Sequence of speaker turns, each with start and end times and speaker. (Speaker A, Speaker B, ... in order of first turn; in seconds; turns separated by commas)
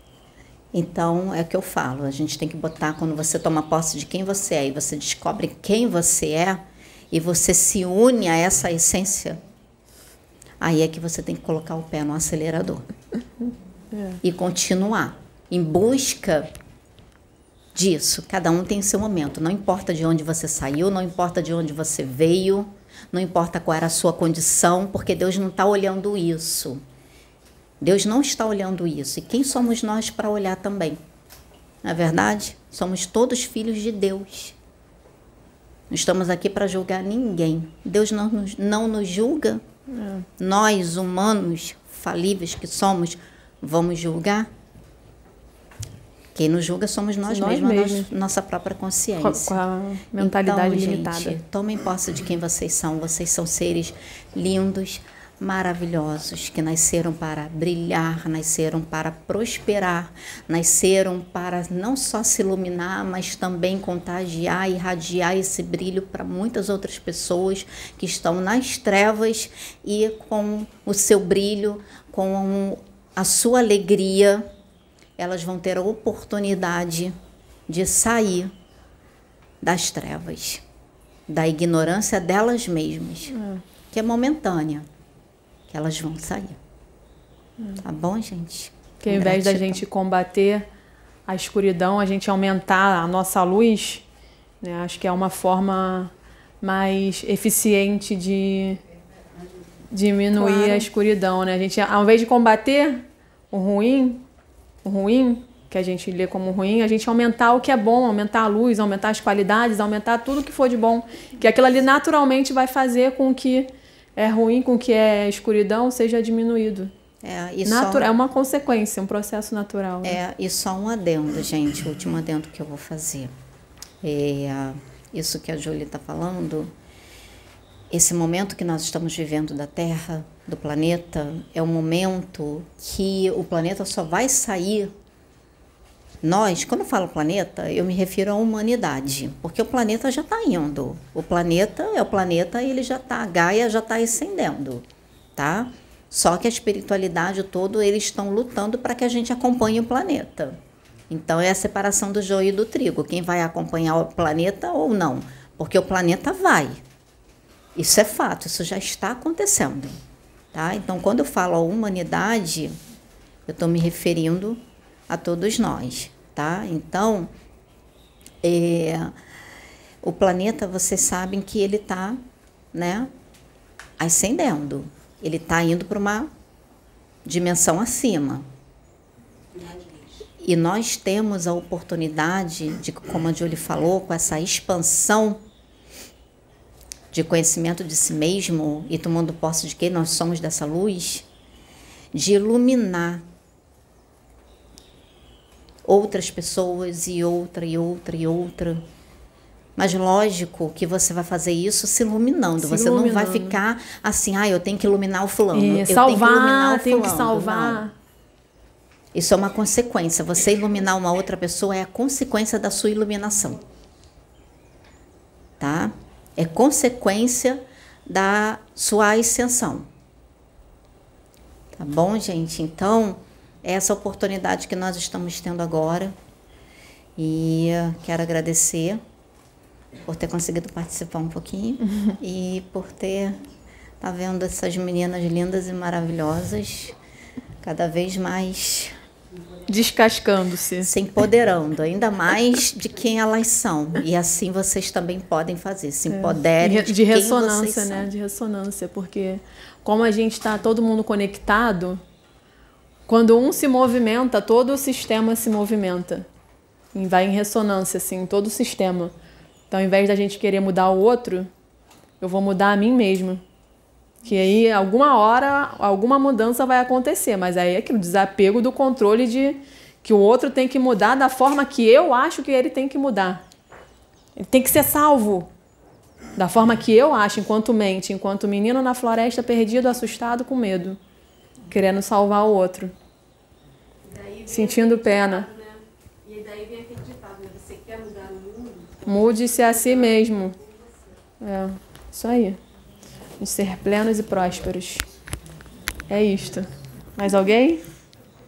Speaker A: 0.7-9.4, Speaker A: 10.6-12.8, Speaker A: 14.2-16.5, Speaker A: 17.7-26.8, Speaker A: 27.8-31.0, Speaker A: 31.8-34.5, Speaker A: 35.9-39.6, Speaker B: 39.9-40.2, Speaker A: 40.4-44.5, Speaker A: 46.3-49.6, Speaker B: 47.3-48.1, Speaker B: 49.2-51.4, Speaker A: 50.2-74.5, Speaker A: 75.2-77.1, Speaker A: 77.7-78.5, Speaker A: 79.6-80.6, Speaker A: 81.3-83.4, Speaker B: 83.3-83.6, Speaker A: 83.9-84.8, Speaker A: 85.7-86.6, Speaker A: 87.8-89.8, Speaker B: 89.0-90.6, Speaker B: 91.3-94.0, Speaker B: 94.6-98.8, Speaker B: 99.9-104.2, Speaker A: 100.3-100.8, Speaker B: 104.8-116.9, Speaker A: 117.2-118.1, Speaker B: 117.6-120.2, Speaker A: 120.0-123.3, Speaker A: 124.0-126.7, Speaker A: 127.9-134.9, Speaker A: 136.2-144.8, Speaker A: 145.3-150.6, Speaker A: 151.1-156.8, Speaker A: 157.7-159.9, Speaker A: 160.5-162.7, Speaker A: 163.5-167.3, Speaker A: 168.4-169.1, Speaker A: 170.0-172.2, Speaker A: 172.7-173.1, Speaker A: 174.0-176.3, Speaker A: 177.2-178.4, Speaker A: 180.4-185.4, Speaker A: 187.1-191.2, Speaker A: 192.1-193.2, Speaker A: 195.8-198.8, Speaker A: 199.8-207.8, Speaker B: 202.6-203.6, Speaker B: 205.5-207.9, Speaker A: 209.1-213.6, Speaker A: 215.6-219.8, Speaker A: 221.7-226.1, Speaker A: 227.2-229.0, Speaker A: 230.1-233.4, Speaker B: 231.9-232.2, Speaker A: 234.0-236.9, Speaker A: 237.6-238.9, Speaker B: 239.7-240.9, Speaker A: 240.8-248.1, Speaker B: 246.1-252.0, Speaker B: 253.1-256.3, Speaker B: 256.9-259.1, Speaker B: 259.7-261.5, Speaker B: 262.2-263.4, Speaker B: 264.2-273.4, Speaker B: 274.4-275.5, Speaker B: 276.4-281.0, Speaker B: 281.7-282.9, Speaker C: 284.0-290.3, Speaker B: 284.5-285.5, Speaker B: 289.1-290.6, Speaker B: 291.4-292.6, Speaker B: 293.4-295.0, Speaker B: 296.1-297.8